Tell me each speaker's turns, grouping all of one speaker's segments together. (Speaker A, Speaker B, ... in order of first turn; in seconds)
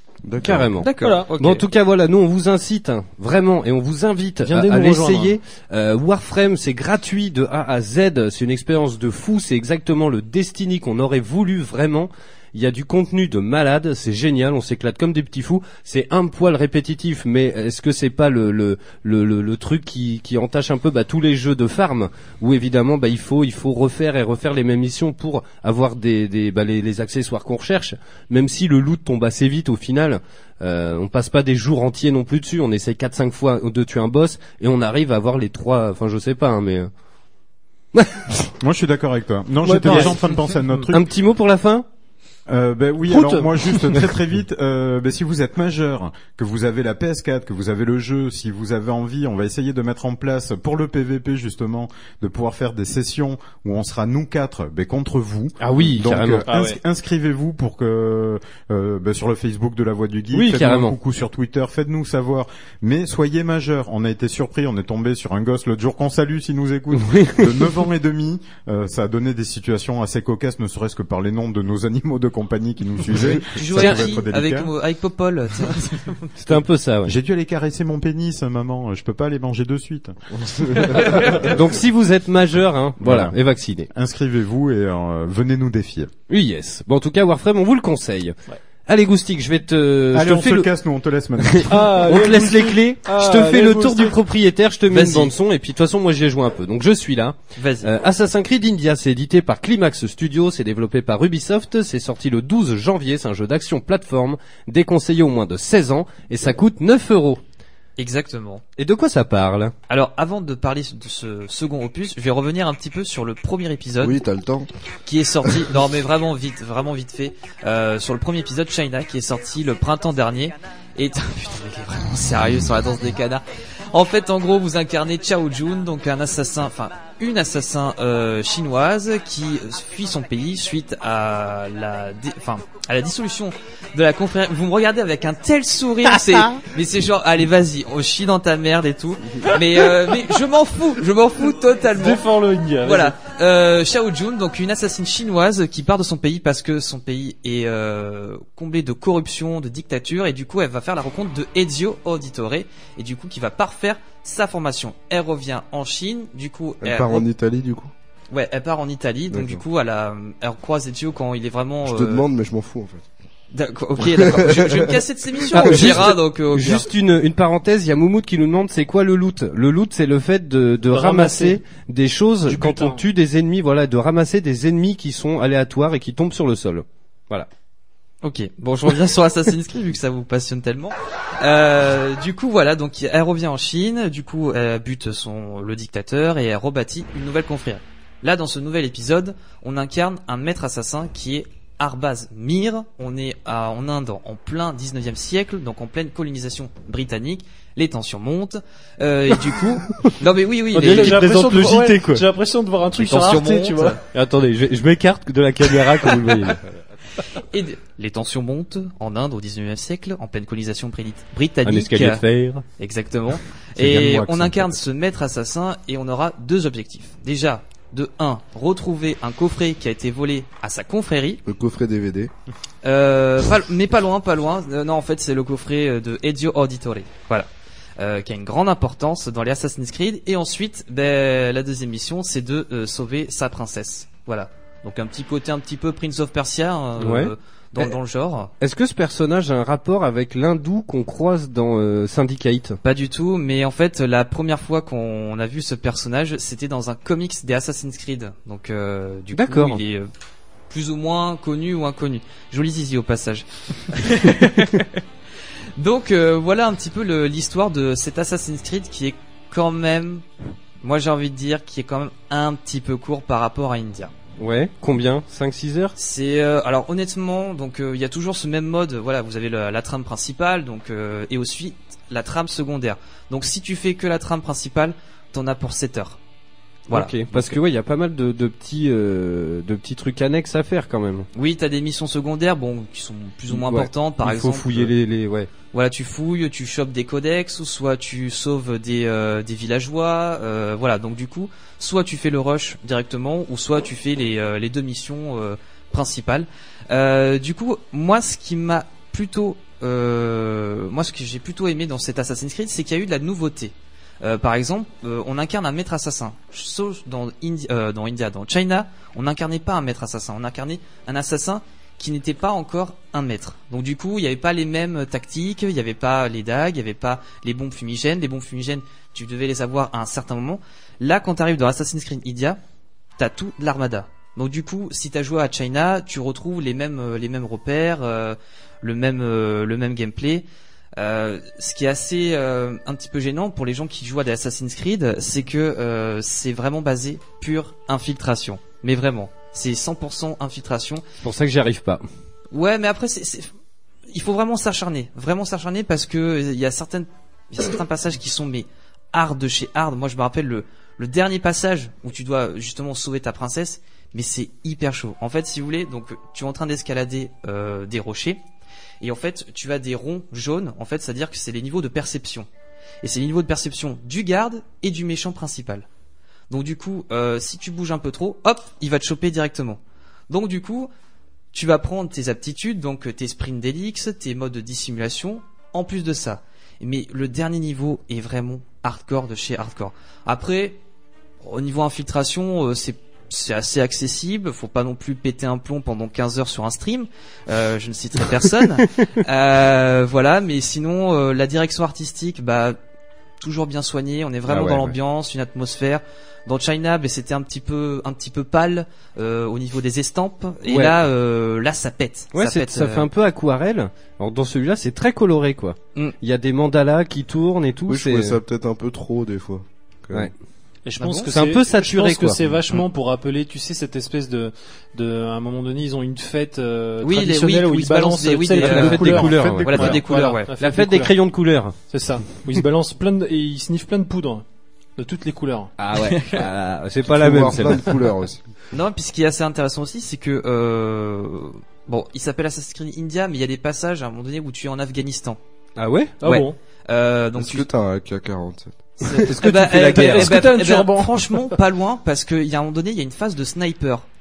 Speaker A: 0.2-0.7, 80.5-80.9, 114.0-114.7, 156.8-157.9, 159.3-159.6, 161.8-163.1, 164.0-165.0, 165.5-166.0, 221.4-222.3, 407.9-410.3, 419.4-419.9, 427.0-428.4, 437.4-438.7
Speaker B: 0.4-36.9, 38.0-38.5, 39.8-40.1, 40.9-41.9, 55.6-56.5, 60.3-61.0, 67.0-67.8, 76.4-77.2, 81.1-83.9, 86.3-88.4, 88.9-90.7, 91.4-107.4, 108.8-109.7, 165.5-177.5, 200.8-202.3, 204.1-206.6, 211.7-212.6, 237.0-237.9, 238.6-242.8, 249.3-249.8, 264.4-265.9, 276.9-281.3, 283.5-285.5, 341.2-342.0, 394.5-394.9, 400.6-401.0, 402.3-408.4, 411.3-412.8, 418.6-420.0, 420.6-421.8, 425.8-427.9, 435.8-436.2, 439.1-440.5
Speaker C: 0.8-1.6, 73.5-76.3, 94.9-95.3, 97.6-97.9, 108.0-108.6, 109.9-114.2, 115.0-142.2, 142.8-157.3, 158.3-162.3, 163.5-166.9, 178.2-201.3, 203.0-204.0, 207.3-212.2, 212.8-221.4, 222.8-238.5, 242.8-250.1, 250.7-255.0, 255.8-260.2, 260.8-264.1, 266.0-276.2, 276.9-277.6, 281.3-284.9, 285.7-322.6, 323.2-330.5, 331.0-341.0, 342.5-343.5, 344.1-358.4, 359.0-362.5, 363.0-365.9, 366.5-370.9, 371.5-380.8, 381.4-392.8, 393.4-403.1, 411.0-411.3, 417.0-420.5, 428.7-435.4, 436.2-437.7, 439.0-444.1
Speaker D: 1.0-1.3, 4.4-5.4, 39.6-40.9, 43.1-44.1, 56.5-56.8, 91.7-94.2, 141.9-143.2, 170.9-171.6, 172.5-173.1, 200.7-204.0, 410.9-421.1, 421.9-424.4, 425.0-425.7, 436.2-436.6, 439.4-441.6
Speaker E: 38.6-41.0, 42.5-74.7, 77.0-81.5, 83.0-83.4, 83.9-86.1, 90.1-91.9, 213.8-214.8